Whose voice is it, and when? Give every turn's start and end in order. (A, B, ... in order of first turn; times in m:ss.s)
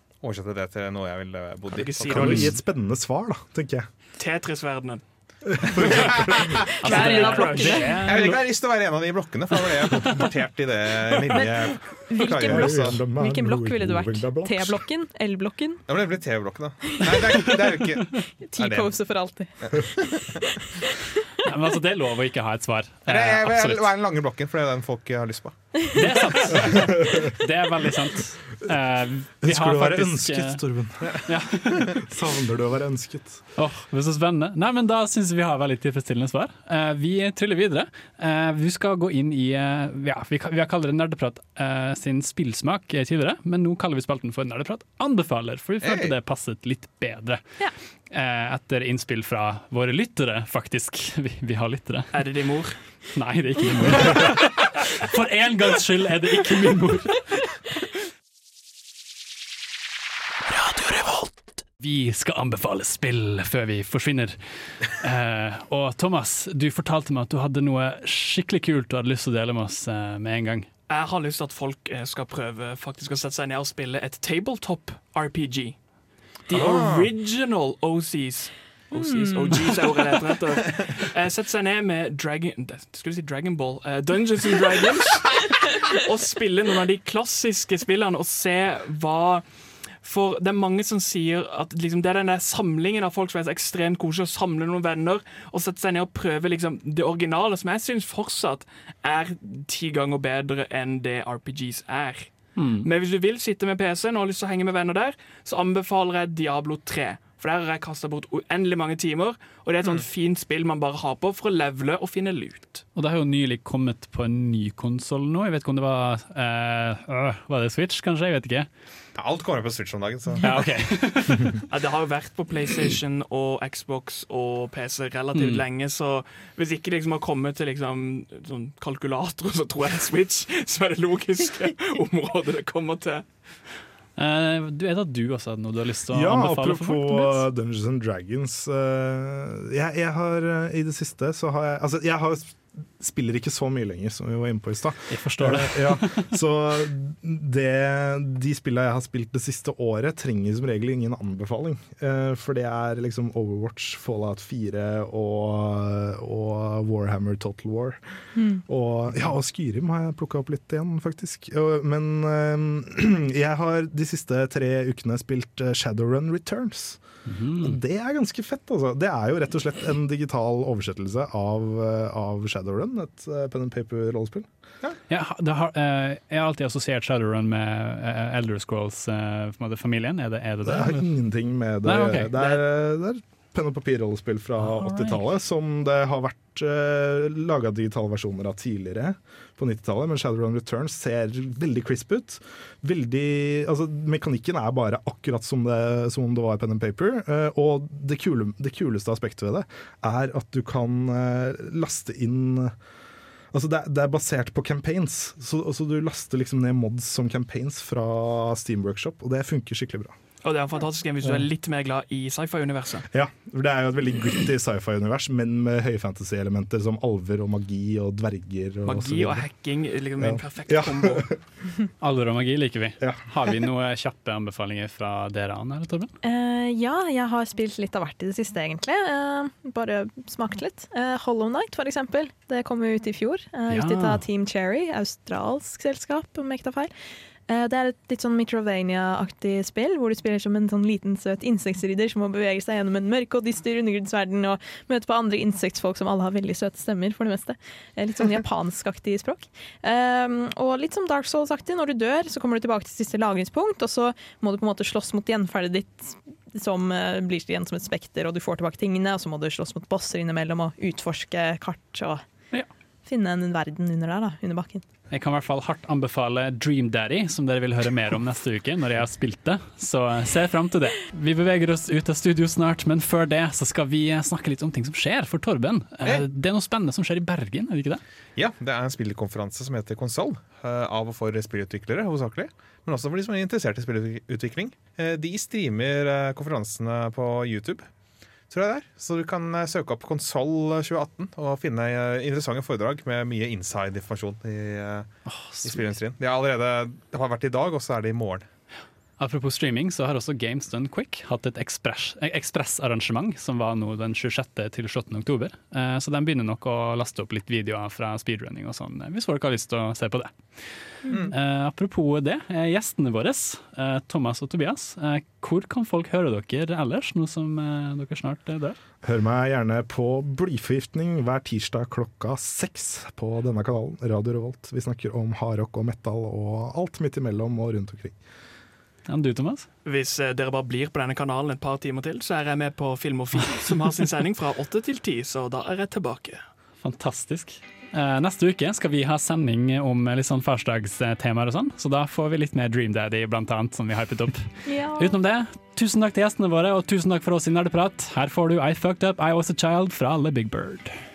0:00.2-0:02.5 A
0:01.7-0:02.5 B
0:02.1-0:03.9 C
0:04.2-0:05.0 B
0:05.4-0:06.5 C
0:05.8-0:06.5 A
0:06.8-0:08.0 D
0:06.8-0:08.4 E
0:06.9-0:07.9 B
0:08.0-0:13.0 A
0:12.1-0:15.8 D
0:12.5-0:14.8 C
0:15.9-0:19.0 A
0:17.0-0:17.6 D
0:18.5-0:20.9 D
0:19.6-0:19.9 A
0:21.4-0:23.9 E
0:23.1-0:25.8 A
0:25.9-0:30.6 E
0:29.4-0:31.2 C
0:31.2-0:32.0 E
0:32.0-0:33.4 C
0:33.6-0:47.4 E
0:45.8-0:46.2 A
0:48.1-0:52.2 E
0:52.1-0:52.8 B
0:53.1-0:57.6 E
1:00.5-1:10.7 E
1:10.9-1:15.8 B
1:16.5-1:29.4 B
1:16.5-1:17.1 A
1:19.0-1:19.8 D
1:30.0-1:42.3 B
1:42.6-1:42.9 E
1:42.8-1:52.8 B
1:53.0-1:58.7 E
1:59.2-2:00.9 A
2:00.4-2:01.6 E
2:01.7-2:13.2 B
2:05.3-2:05.6 E
2:14.2-2:17.4 E
2:16.1-2:38.0 C
2:25.1-2:26.3 E
2:38.4-2:38.6 D
2:38.7-2:47.0 C
2:47.3-2:47.8 E
2:47.6-2:54.5 C
2:55.1-3:01.1 E
3:00.6-3:22.7 C
3:01.8-3:02.4 E
3:04.6-3:05.2 E
3:23.5-3:30.1 C
3:30.4-3:33.1 B
3:33.1-3:39.5 C
3:38.8-3:41.3 B
3:40.2-3:41.3 C
3:42.0-3:46.1 E
3:43.0-3:43.7 C
3:46.2-3:56.9 D
3:53.7-3:54.2 E
3:57.5-4:22.2 D
4:23.1-4:24.8 D
4:25.1-4:38.0 E
4:38.4-4:47.9 A
4:48.5-4:58.5 A
4:55.3-4:55.8 E
4:59.2-5:18.8 E
5:11.1-5:11.4 A
5:19.0-5:28.2 C
5:29.1-5:29.7 E
5:29.8-5:36.4 B
5:36.8-5:50.9 E
5:44.7-5:45.2 D